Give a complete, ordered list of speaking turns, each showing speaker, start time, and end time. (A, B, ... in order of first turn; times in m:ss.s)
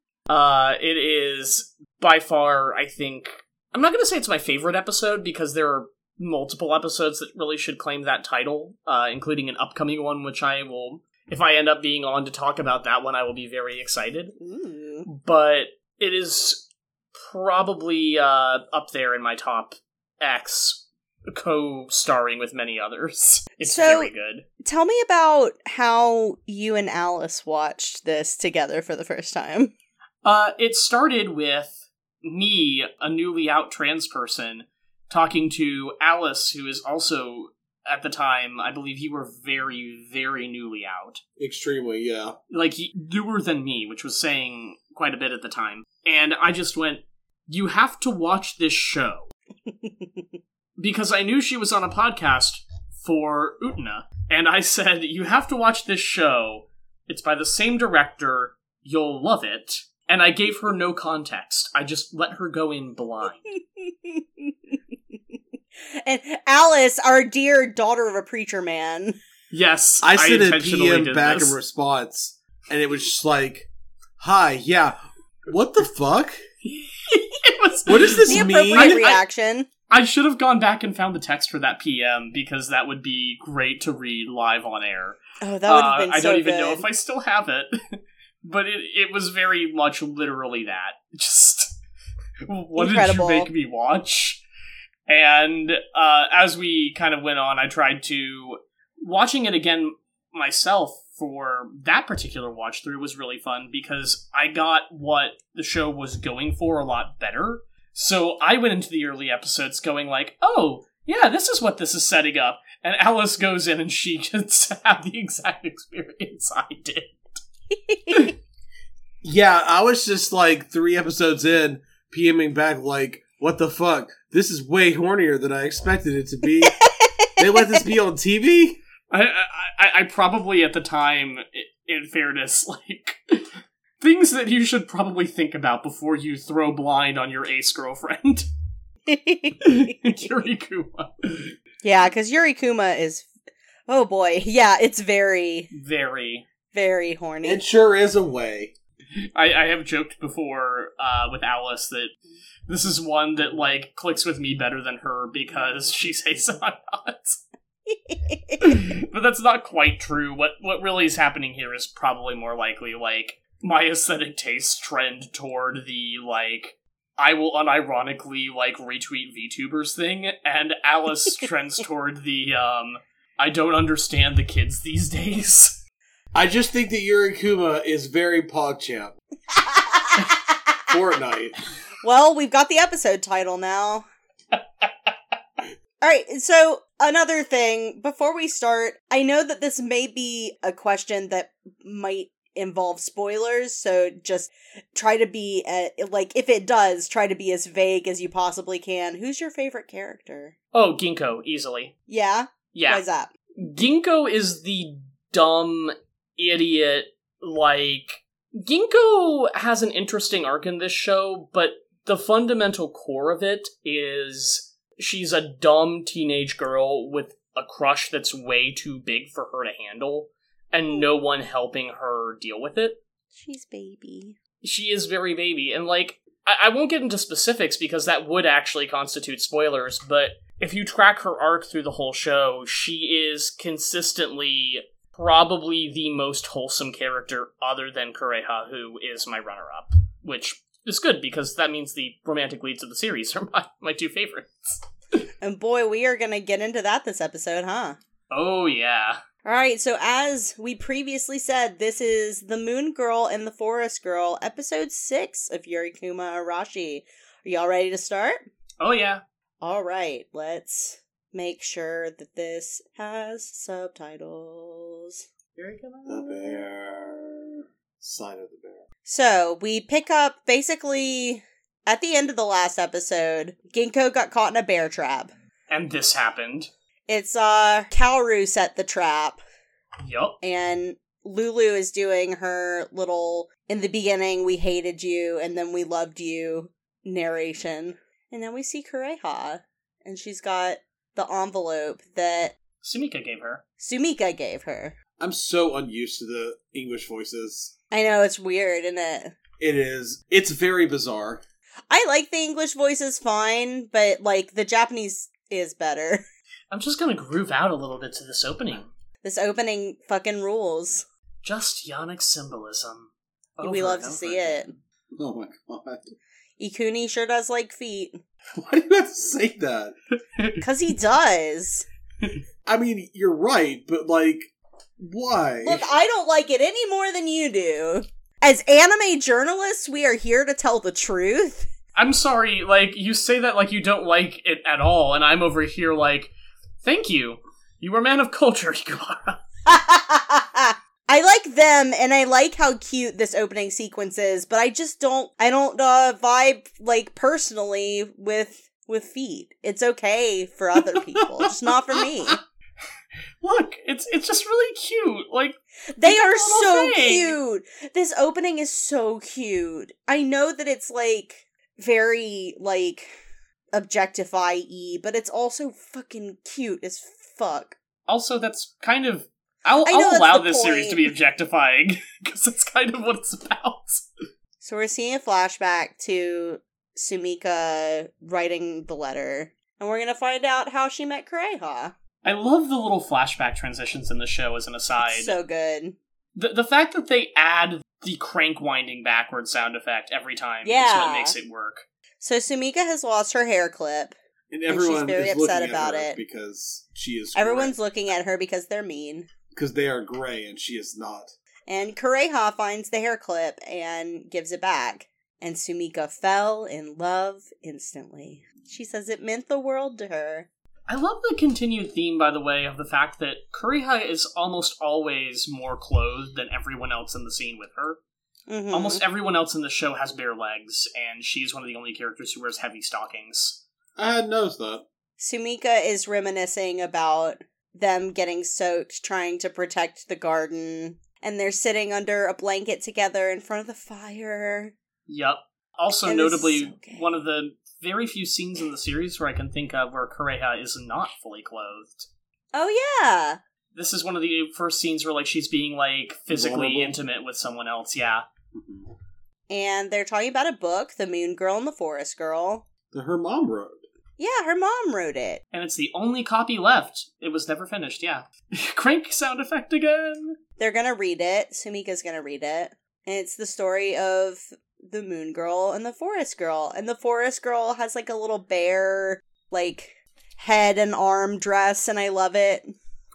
0:00.3-0:14.4 A
0:14.4-0:15.1 B
0:15.0-0:16.6 A
0:17.1-0:24.4 A
0:23.6-0:24.1 B
0:24.6-0:29.7 B
0:30.2-0:41.2 A
0:41.4-0:42.4 C
0:42.5-0:49.3 A
0:50.8-1:03.5 A
1:03.8-1:04.7 B
1:05.9-1:09.2 B
1:09.5-1:11.5 A
1:10.0-1:13.7 C
1:14.2-1:15.0 C
1:15.5-1:16.4 C
1:16.6-1:19.2 A
1:17.8-1:19.0 C
1:18.3-1:19.7 B
1:19.9-1:31.8 A
1:25.4-1:26.8 B
1:32.5-1:34.4 A
1:32.7-1:33.5 B
1:35.1-1:57.2 A
1:57.7-1:58.3 B
1:59.2-2:08.8 C
2:06.7-2:07.8 B
2:09.1-2:18.5 A
2:19.1-2:20.3 B
2:19.6-2:21.5 A
2:21.8-2:23.3 B
2:23.9-2:25.7 B
2:25.7-2:26.4 A
2:26.7-2:27.6 B
2:27.4-2:28.7 C
2:29.3-2:32.1 A
2:32.7-2:37.4 A
2:37.9-2:38.7 B
2:38.6-2:55.8 A
2:56.3-2:59.2 C
2:59.7-3:00.2 B
3:00.9-3:01.6 C
3:02.0-3:04.1 B
3:04.5-3:05.1 A
3:06.0-3:20.5 B
3:20.7-3:21.9 A
3:22.1-3:23.3 B
3:22.7-3:23.0 A
3:23.6-3:43.0 A
3:43.3-3:44.4 B
3:44.6-4:05.2 A
4:05.4-4:08.0 B
4:08.3-4:09.2 A
4:09.4-4:18.4 B
4:18.8-4:19.2 A
4:19.6-4:25.2 B
4:25.6-4:26.5 A
4:26.0-4:28.8 C
4:29.1-4:35.3 B
4:35.7-4:36.7 A
4:37.1-4:39.4 B
4:40.0-4:40.4 A
4:40.4-4:52.5 B
4:52.8-4:53.6 A
4:53.8-4:54.9 B
4:55.2-4:57.7 C
4:57.9-4:59.3 B
4:59.6-5:01.4 C
5:01.9-5:06.2 B
5:06.7-5:08.9 A
5:09.2-5:11.0 B
5:11.4-5:14.6 A
5:13.6-5:14.7 B
5:15.2-5:16.2 C
5:16.6-5:18.2 B
5:18.6-5:19.9 C
5:20.3-5:20.6 A
5:20.6-5:21.8 B
5:22.6-5:25.9 C
5:25.6-5:31.7 B
5:32.0-5:39.4 A
5:39.6-5:52.4 B
5:51.2-5:51.5 C
5:53.4-5:57.4 A
5:56.0-6:03.1 B
6:03.7-6:07.8 B
6:08.1-6:14.0 A
6:09.8-6:11.1 B
6:14.6-6:21.9 B
6:22.2-6:25.3 A
6:25.0-6:26.0 B
6:26.4-6:31.8 A
6:30.6-6:31.4 B
6:32.2-6:34.1 B
6:34.5-6:37.8 C
6:34.7-6:36.2 B
6:37.3-6:39.3 B
6:39.5-6:41.3 C
6:41.7-6:50.5 B
6:50.9-6:58.0 A
6:58.5-6:59.0 B
6:58.7-7:03.6 A
7:04.0-7:04.8 C
7:05.2-7:14.7 B
7:15.1-7:22.1 A
7:16.0-7:17.1 B
7:22.5-7:23.4 B
7:23.7-7:28.2 A
7:26.3-7:27.0 C
7:28.5-7:28.9 C
7:29.5-7:32.6 B
7:32.9-7:33.8 C
7:34.2-7:35.4 B
7:35.5-7:40.4 A
7:40.6-7:52.7 B